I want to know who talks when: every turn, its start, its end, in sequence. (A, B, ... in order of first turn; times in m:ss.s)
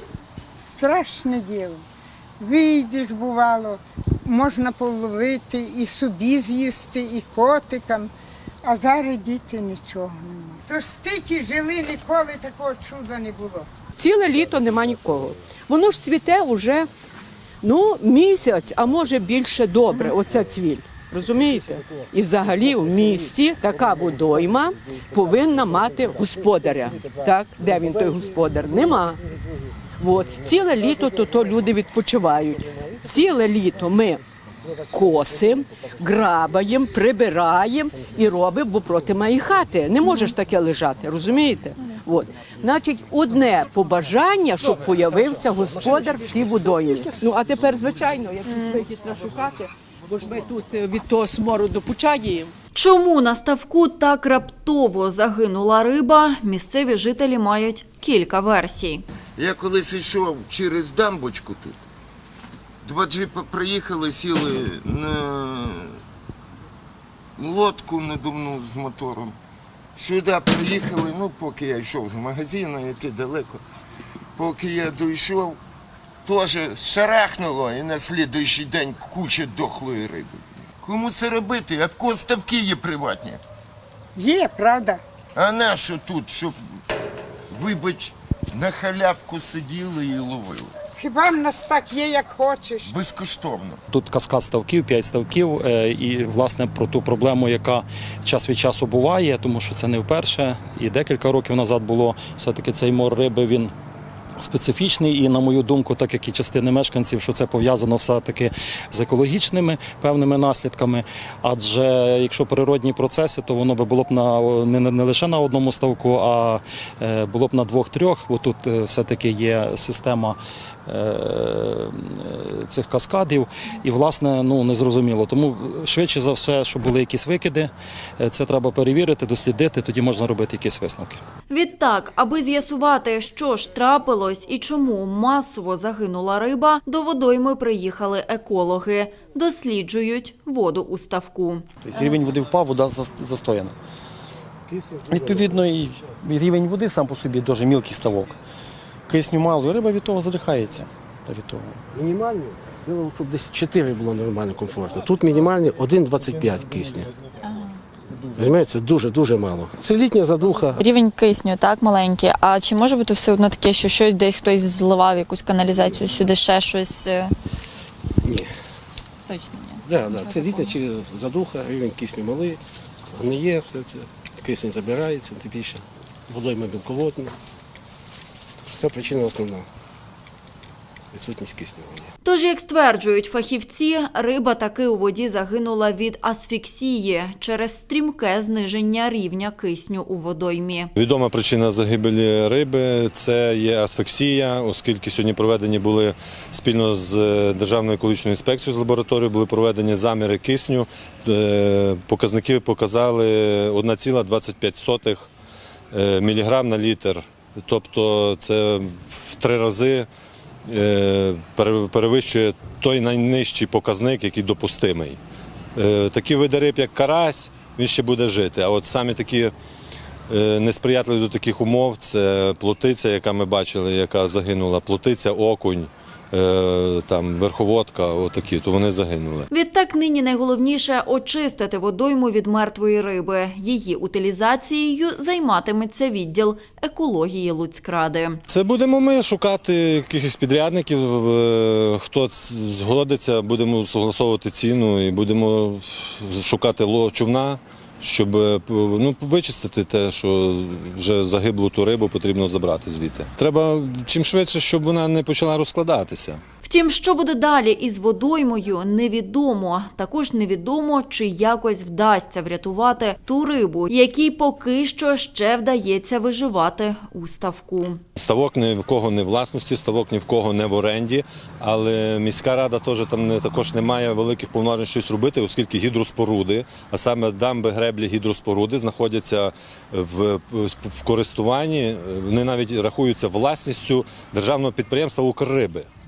0:00.6-0:01.8 A
0:02.4-0:08.1 A
0:08.6-0:13.7 A
0:14.0-0:16.9 B
0:17.6-0:29.2 B
0:30.0-0:34.2 B
0:34.8-0:52.5 B
0:40.0-0:40.3 C
0:52.7-0:59.0 C
0:59.4-1:01.8 D
1:02.8-1:06.0 D
1:07.4-1:09.4 D
1:10.0-1:13.6 D
1:14.4-1:15.6 D
1:16.2-1:23.4 D
1:24.2-1:25.0 A
1:25.4-1:26.6 D
1:27.5-1:30.7 D
1:31.0-1:33.0 A
1:32.8-1:33.8 D
1:33.9-1:43.7 E
1:44.4-2:11.2 E
2:11.5-2:22.2 C
2:21.8-2:23.8 F
2:24.7-2:25.6 G
2:25.1-2:28.4 F
2:29.1-2:31.8 F
2:31.9-2:37.1 G
2:38.2-2:40.8 G
2:40.8-2:47.3 C
2:48.2-2:48.5 G
2:49.2-2:50.8 C
2:49.8-2:52.6 G
2:53.1-2:57.3 G
2:58.6-2:59.7 G
3:01.1-3:02.1 G
3:02.2-3:10.9 C
3:11.0-3:25.3 H
3:25.9-3:30.1 H
3:30.7-3:35.2 H
3:35.8-3:39.5 H
3:40.3-3:49.5 H
3:49.5-3:58.4 C
3:58.5-4:16.4 H
4:16.6-4:28.0 C
4:28.2-4:45.9 H